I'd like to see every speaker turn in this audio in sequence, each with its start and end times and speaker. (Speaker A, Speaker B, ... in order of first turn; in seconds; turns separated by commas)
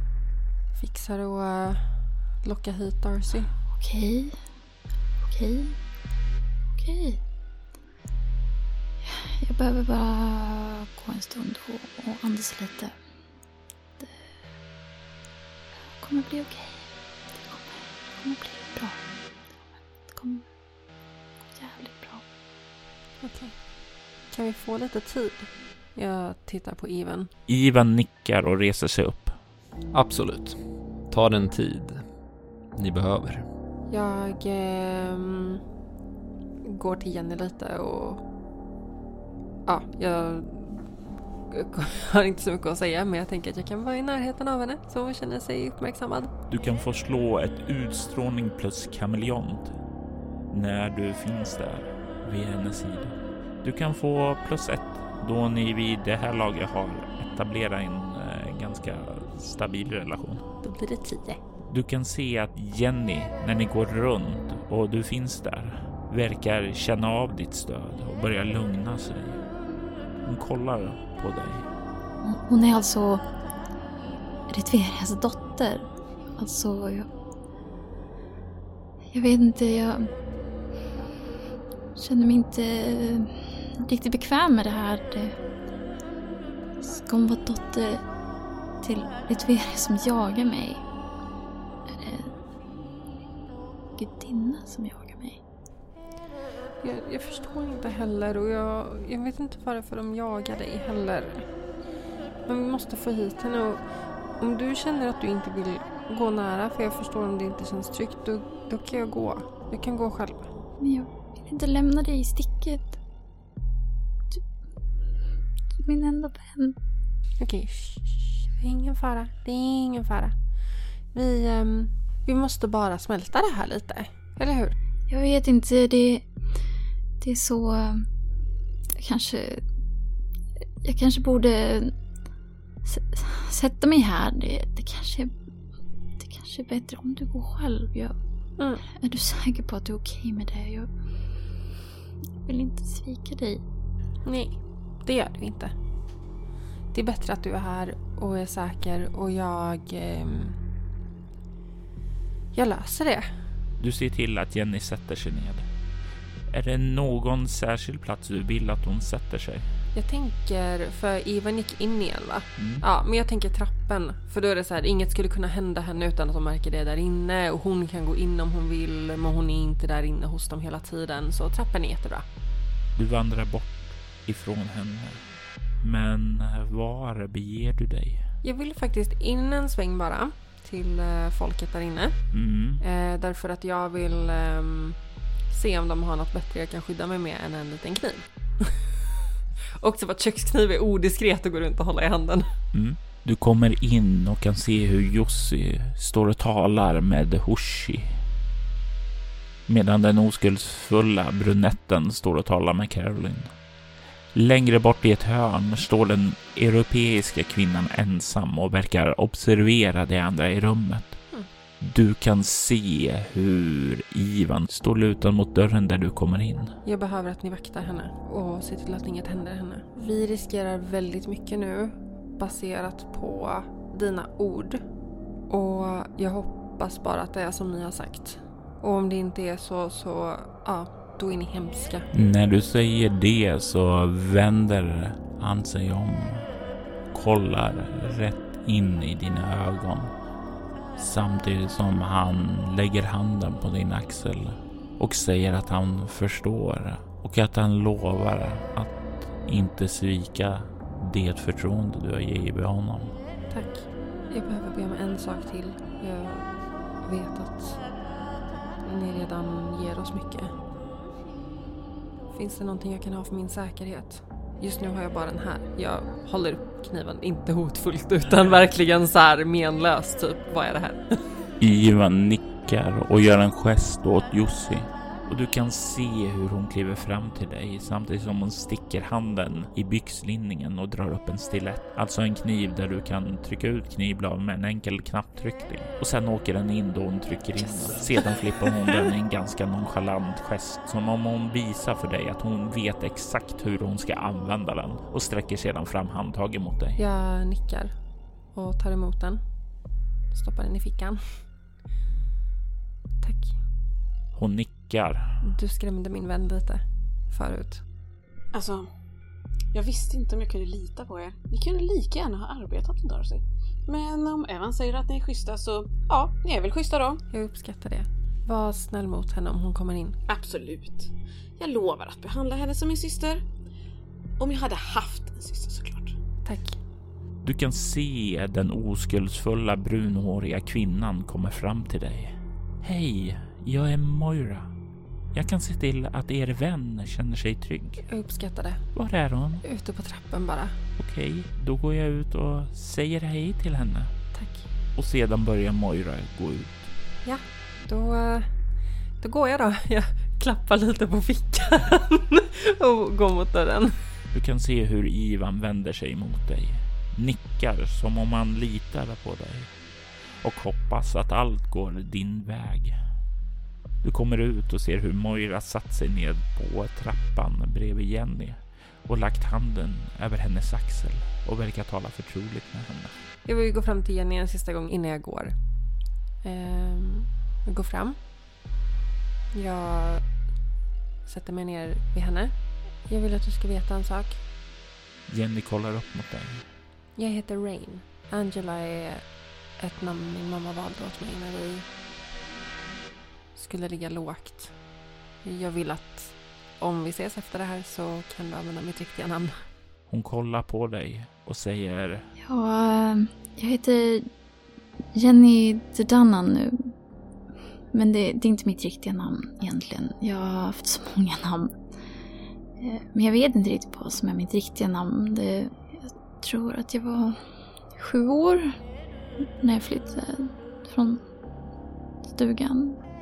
Speaker A: 0.7-3.5, Speaker B: 3.6-4.5, Speaker B: 5.2-5.8, Speaker B: 6.7-7.2, Speaker B: 9.0-13.0, Speaker B: 14.0-14.2, Speaker B: 15.9-20.5, Speaker B: 21.4-22.2, Speaker A: 23.2-23.6, Speaker A: 24.3-27.3, Speaker C: 27.5-29.3, Speaker D: 29.9-32.1, Speaker D: 32.7-33.5, Speaker A: 33.9-35.6, Speaker A: 36.6-38.2, Speaker A: 39.6-40.9, Speaker A: 41.5-46.3, Speaker C: 46.5-49.7, Speaker C: 50.5-60.5, Speaker A: 60.6-61.4, Speaker C: 61.7-69.4, Speaker C: 70.2-71.7, Speaker B: 72.2-73.2, Speaker B: 74.5-77.1, Speaker B: 79.1-80.1, Speaker B: 81.9-85.4, Speaker B: 86.8-88.2, Speaker B: 88.7-90.8, Speaker B: 91.9-92.4, Speaker B: 94.0-95.4, Speaker A: 96.8-101.5, Speaker A: 102.5-110.5, Speaker B: 110.8-113.0, Speaker B: 115.8-116.8, Speaker A: 117.4-120.4, Speaker A: 121.1-124.7, Speaker B: 125.1-126.5, Speaker B: 127.2-128.1, Speaker B: 128.9-129.6, Speaker B: 130.8-132.0, Speaker B: 132.8-135.3, Speaker B: 136.2-138.2, Speaker A: 138.6-138.8, Speaker B: 138.9-141.6, Speaker B: 142.4-143.6, Speaker A: 144.2-145.7, Speaker A: 146.9-150.6, Speaker A: 152.5-153.3, Speaker C: 153.8-155.7, Speaker C: 156.5-159.7, Speaker A: 159.9-172.2, Speaker C: 162.6-162.8, Speaker C: 172.9-175.2, Speaker C: 175.8-178.2, Speaker A: 178.4-182.2, Speaker C: 182.3-182.8, Speaker A: 182.8-185.0, Speaker A: 185.5-188.7, Speaker A: 189.8-192.5, Speaker C: 192.7-198.2, Speaker C: 199.7-203.5, Speaker C: 204.3-211.3, Speaker C: 211.8-216.7, Speaker A: 216.8-224.8, Speaker A: 225.5-232.1, Speaker C: 232.1-236.4, Speaker C: 237.1-240.1, Speaker C: 241.0-253.1, Speaker A: 253.5-257.8, Speaker A: 258.8-260.5, Speaker A: 262.3-271.2, Speaker C: 271.6-297.0, Speaker A: 297.0-297.9, Speaker A: 298.5-299.4, Speaker A: 300.3-301.2, Speaker A: 303.2-303.6, Speaker C: 304.3-305.3, Speaker A: 305.4-307.8, Speaker E: 309.8-313.4, Speaker E: 313.9-317.2, Speaker A: 317.3-320.2, Speaker E: 320.3-321.0, Speaker E: 321.6-323.3, Speaker E: 324.4-326.1, Speaker A: 326.4-326.8, Speaker C: 327.4-334.7, Speaker C: 335.3-338.0, Speaker A: 338.1-338.9, Speaker C: 338.9-339.6, Speaker A: 339.6-340.8, Speaker C: 341.0-344.1, Speaker A: 344.3-344.6, Speaker C: 344.9-346.8, Speaker A: 347.2-348.5, Speaker A: 349.2-353.9, Speaker C: 354.3-359.7, Speaker C: 360.4-362.9, Speaker C: 364.0-373.2, Speaker A: 373.4-375.5, Speaker A: 376.4-378.2, Speaker A: 379.5-380.2, Speaker A: 381.2-382.5, Speaker A: 383.0-384.4, Speaker C: 385.3-386.6, Speaker A: 387.1-389.2, Speaker A: 389.8-391.9, Speaker A: 393.5-394.7, Speaker A: 395.4-399.6, Speaker C: 400.1-402.3, Speaker B: 402.4-404.3, Speaker B: 405.1-406.9, Speaker B: 407.9-411.8, Speaker B: 412.8-417.4, Speaker B: 417.9-418.8, Speaker B: 419.4-421.2, Speaker B: 422.3-423.0